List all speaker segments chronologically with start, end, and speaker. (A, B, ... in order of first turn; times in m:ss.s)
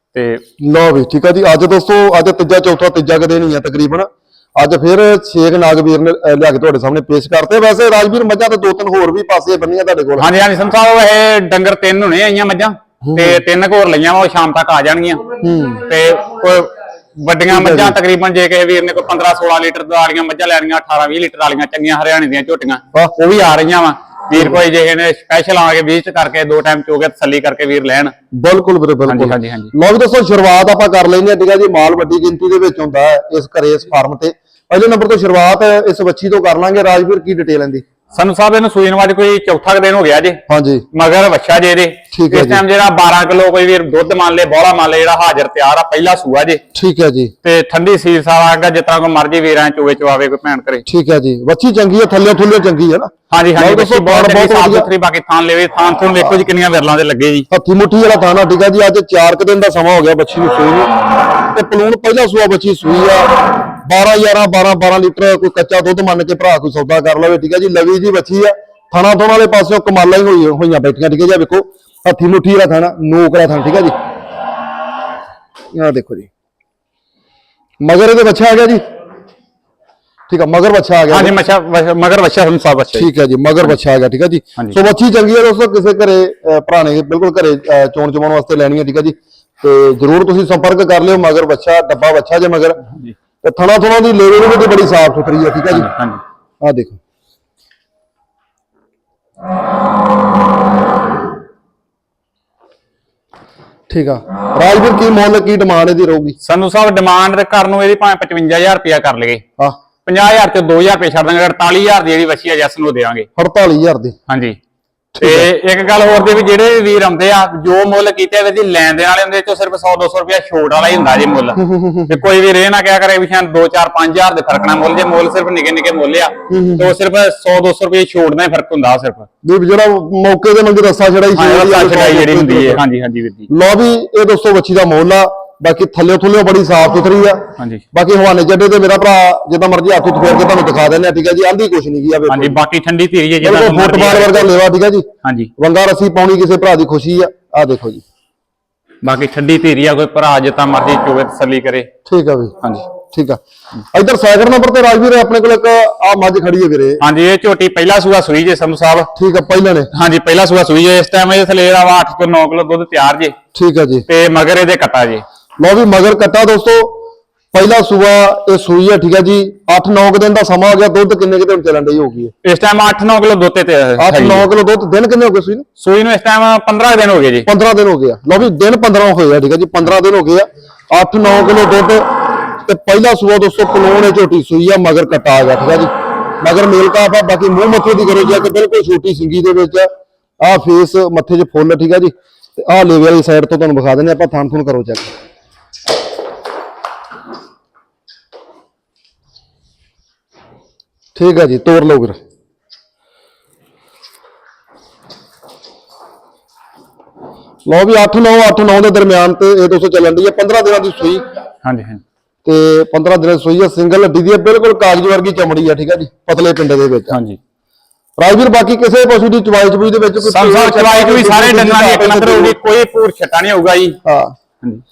0:00.1-0:00.4 A
0:00.6-0:10.2 B
0:10.2-0:15.2 A
0:13.0-0:13.4 B
0:15.4-0:15.8 B
0:15.8-0:28.1 A
0:17.5-0:18.0 B
0:28.3-0:37.8 B
0:29.0-0:29.7 A
0:38.1-0:40.4 A
0:40.5-0:40.8 B
0:40.9-0:46.6 A
0:42.1-0:42.6 B
0:46.7-0:47.3 B
0:47.4-0:50.8 A
0:50.8-0:54.9 B
0:53.3-0:57.5 A
0:57.5-1:00.9 B
1:01.5-1:13.9 B
1:15.7-1:16.3 B
1:17.8-1:18.8 B
1:20.3-1:21.3 B
1:21.1-1:23.1 A
1:22.9-1:32.8 B
1:32.9-1:33.1 A
1:33.4-1:35.9 B
1:35.7-1:36.2 A
1:36.6-1:37.0 B
1:43.9-1:46.4 B
1:46.4-1:49.4 A
1:50.0-1:53.3 A
1:53.4-1:54.1 B
1:54.3-1:54.6 A
1:55.1-1:55.5 B
1:55.2-2:09.3 A
2:01.6-2:02.1 B
2:06.5-2:06.9 B
2:09.4-2:12.8 B
2:11.3-2:13.5 A
2:13.5-2:22.6 B
2:17.6-2:17.8 A
2:22.3-2:24.5 A
2:23.4-2:28.0 B
2:25.2-2:25.5 A
2:29.0-2:31.9 A
2:32.0-2:32.5 B
2:33.1-2:33.4 B
2:33.9-2:37.0 B
2:37.0-2:39.1 A
2:39.1-2:39.9 B
2:39.9-2:43.3 A
2:43.5-2:44.0 B
2:44.1-2:45.2 A
2:45.6-2:47.0 B
2:47.5-2:52.3 B
2:52.4-2:54.4 A
2:54.0-2:55.6 B
2:55.8-2:57.5 A
2:57.5-3:02.0 B
3:02.6-3:09.9 B
3:10.4-3:15.1 B
3:21.2-3:22.2 B
3:27.6-3:31.2 B
3:31.6-3:32.0 A
3:32.4-3:37.2 B
3:37.1-3:37.4 A
3:38.2-3:42.6 B
3:40.2-3:44.0 A
3:44.0-3:44.4 B